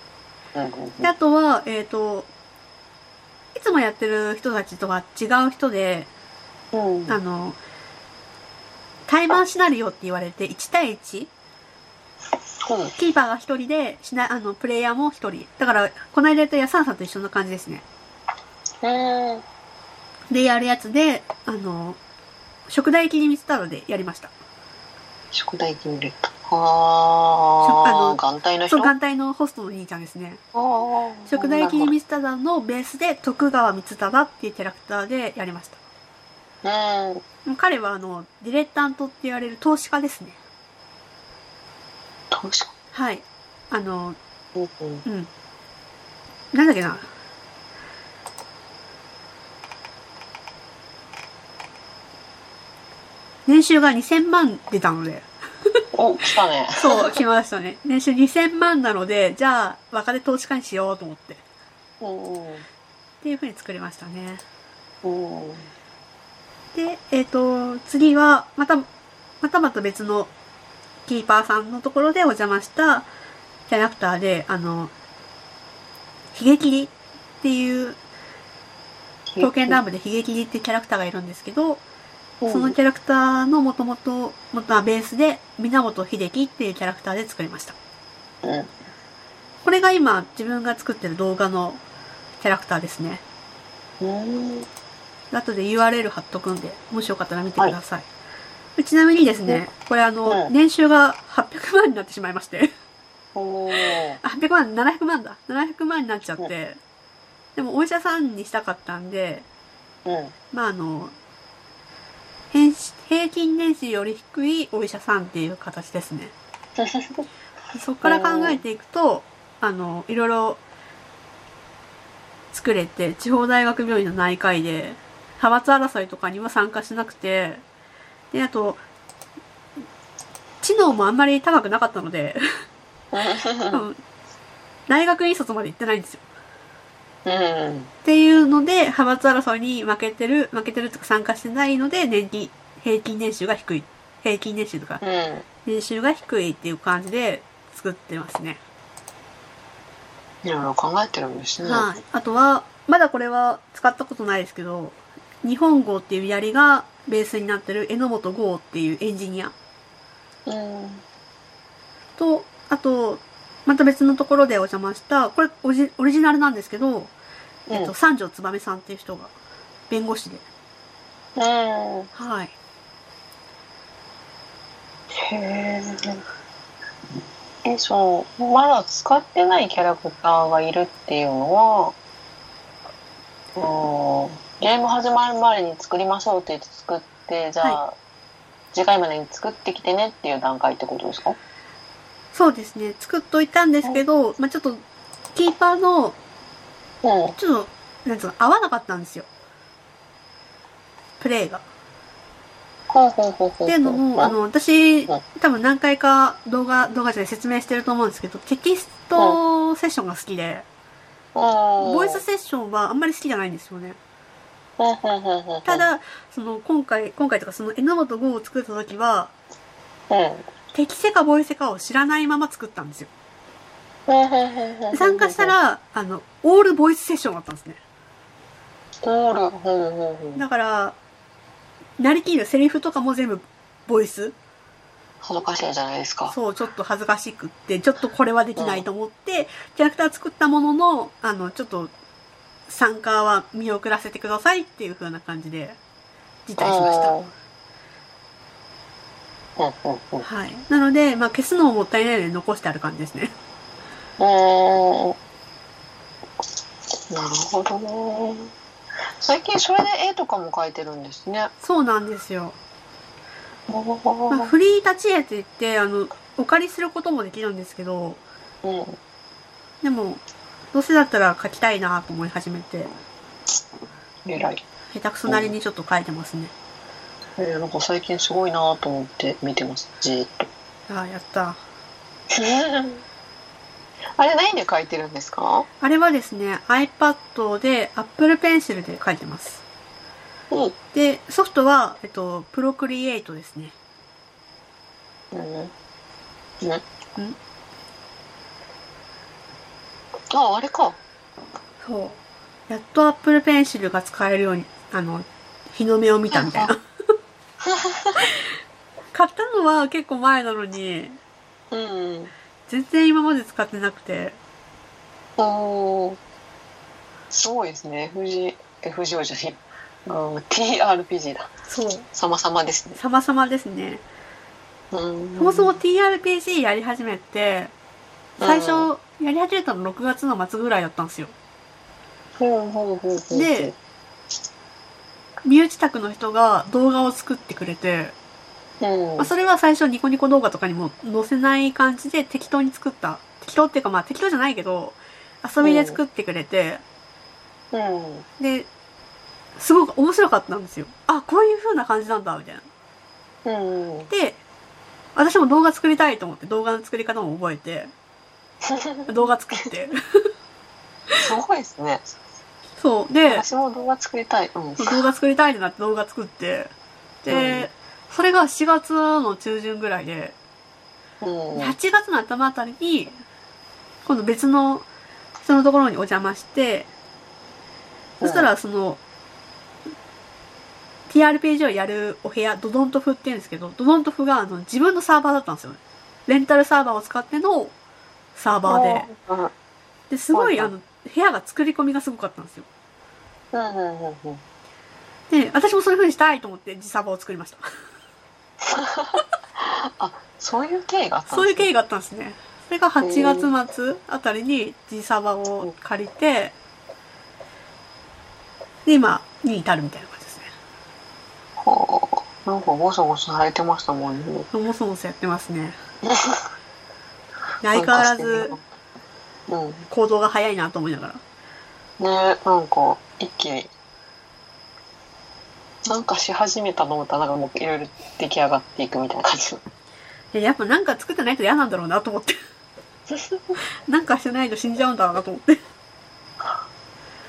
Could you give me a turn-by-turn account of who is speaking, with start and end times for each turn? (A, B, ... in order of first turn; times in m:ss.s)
0:00.5-0:01.1 A
0:01.0-0:02.3 B
0:03.5-0:06.1 B
0:06.7-0:07.2 A
0:07.1-0:07.6 B
0:09.1-0:11.3 B
0:12.6-0:12.9 A
0:13.0-0:17.8 B
0:18.8-0:19.4 A
0:20.3-0:22.0 B
0:22.7-0:24.3 B
0:25.3-0:28.9 A
0:27.6-0:30.4 B
0:30.5-0:31.9 A
0:31.3-0:35.8 B
0:36.6-0:37.2 A
0:37.4-0:40.4 B
0:42.3-0:42.7 A
0:42.9-0:44.2 B
0:44.6-0:45.0 A
0:46.5-0:47.1 B
0:53.4-0:55.8 B
0:55.9-0:57.2 A
0:56.8-1:01.4 B
1:02.0-1:02.6 A
1:03.2-1:04.4 B
1:05.0-1:05.7 A
1:06.7-1:08.8 B
1:09.4-1:10.3 B
1:11.0-1:13.1 B
1:13.7-1:14.9 B
1:16.3-1:18.0 B
1:19.3-1:19.8 A
1:19.4-1:21.8 B
1:22.4-1:22.8 A
1:22.5-1:27.8 B
1:28.4-1:28.7 A
1:29.6-1:31.8 B
1:32.4-1:33.2 B
1:34.0-1:34.7 A
1:35.3-1:38.1 B
1:38.8-1:42.7 B
1:40.3-1:40.5 A
1:43.3-1:44.2 A
1:43.8-1:46.8 B
1:47.6-1:49.4 B
1:50.0-1:50.3 A
1:50.5-1:51.1 B
1:52.5-1:56.3 B
1:56.8-1:57.2 A
1:57.7-2:00.6 B
1:58.0-1:58.6 A
2:02.5-2:07.6 B
2:08.3-2:08.8 B
2:10.6-2:12.4 B
2:13.1-2:13.8 A
2:13.7-2:14.0 B
2:14.9-2:16.2 B
2:17.2-2:17.9 A
2:18.0-2:25.0 B
2:25.0-2:25.4 A
2:25.6-2:28.6 B
2:30.4-2:31.9 A
2:31.6-2:39.5 B
2:40.4-2:41.0 A
2:42.2-2:47.1 B
2:47.7-2:47.9 A
2:47.7-2:49.3 B
2:49.9-2:50.4 B
2:51.4-2:52.1 A
2:52.1-2:52.5 B
2:55.1-2:56.2 A
2:57.6-3:01.9 A
3:03.6-3:08.0 A
3:08.7-3:11.4 A
3:12.3-3:14.8 B
3:15.3-3:16.2 B
3:17.0-3:17.4 A
3:17.4-3:19.3 B
3:21.2-3:21.6 B
3:22.9-3:24.3 A
3:23.6-3:30.6 B
3:31.3-3:32.2 A
3:31.8-3:34.0 B
3:34.8-3:35.8 A
3:35.6-3:39.3 B
3:40.1-3:40.5 A
3:40.7-3:43.1 B
3:44.1-3:45.5 A
3:44.9-3:47.8 B
3:49.0-3:50.4 A
3:50.4-3:51.0 B
3:52.0-3:54.3 B
3:55.2-3:56.3 A
3:56.3-4:01.9 B
3:58.6-3:58.8 A
4:02.7-4:05.8 B
4:06.5-4:07.1 B
4:06.6-4:07.3 A
4:09.6-4:10.3 A
4:10.2-4:13.3 B
4:14.2-4:15.2 A
4:17.1-4:18.5 A
4:19.2-4:21.5 A
4:21.6-4:22.6 B
4:23.7-4:24.5 A
4:24.3-4:28.2 B
4:28.6-4:29.0 A
4:29.8-4:32.9 B
4:34.2-4:34.6 A
4:34.9-4:36.5 B
4:37.4-4:40.5 A
4:40.9-4:41.6 B
4:42.3-4:43.0 A
4:44.2-4:45.7 A
4:45.8-4:49.6 B
4:50.5-4:50.8 A
4:50.9-4:53.7 B
4:55.3-4:55.7 A
5:00.3-5:01.0 A
5:01.8-5:06.8 B
5:06.3-5:06.7 A
5:07.6-5:08.2 A
5:09.1-5:11.2 B
5:11.7-5:12.3 A
5:12.7-5:14.4 B
5:15.4-5:16.2 A
5:17.3-5:21.5 A
5:21.7-5:22.0 B
5:22.1-5:23.0 A
5:23.0-5:24.0 B
5:24.9-5:25.7 A
5:25.4-5:27.7 B
5:28.4-5:28.9 A
5:28.4-5:31.3 B
5:32.4-5:33.7 A
5:33.3-5:33.7 B
5:35.4-5:38.1 B
5:38.8-5:39.3 A
5:39.2-5:46.8 B
5:45.6-5:46.0 A
5:47.7-5:48.2 A
5:48.4-5:48.7 B
5:49.6-5:52.6 B
5:53.4-5:54.1 A
5:54.1-5:54.4 B
5:55.2-5:57.9 B
5:58.6-5:59.1 A
5:59.1-6:00.3 B
6:01.2-6:02.1 A
6:02.8-6:03.4 B
6:03.3-6:05.0 A
6:04.8-6:06.7 B
6:07.2-6:10.4 B
6:07.3-6:07.7 A
6:11.2-6:11.8 A
6:11.6-6:13.1 B
6:14.0-6:14.8 B
6:15.4-6:16.9 B
6:18.2-6:18.5 A
6:18.2-6:19.0 B
6:21.1-6:27.7 B
6:28.3-6:29.1 B
6:28.7-6:29.5 A
6:30.1-6:32.7 B
6:30.3-6:30.7 A
6:33.5-6:34.4 A
6:35.3-6:37.6 B
6:38.6-6:41.7 A
6:41.3-6:46.5 B
6:43.0-6:43.5 A
6:48.8-6:50.5 B
6:51.6-6:54.5 A
6:54.5-6:55.8 B
6:56.0-6:56.5 A
6:57.6-6:58.6 B
6:57.7-6:58.6 A
6:59.5-6:59.8 A
6:59.9-7:01.2 B
7:02.0-7:03.7 A
7:05.8-7:09.6 A
7:10.3-7:12.4 B
7:13.1-7:13.4 A
7:13.9-7:15.6 B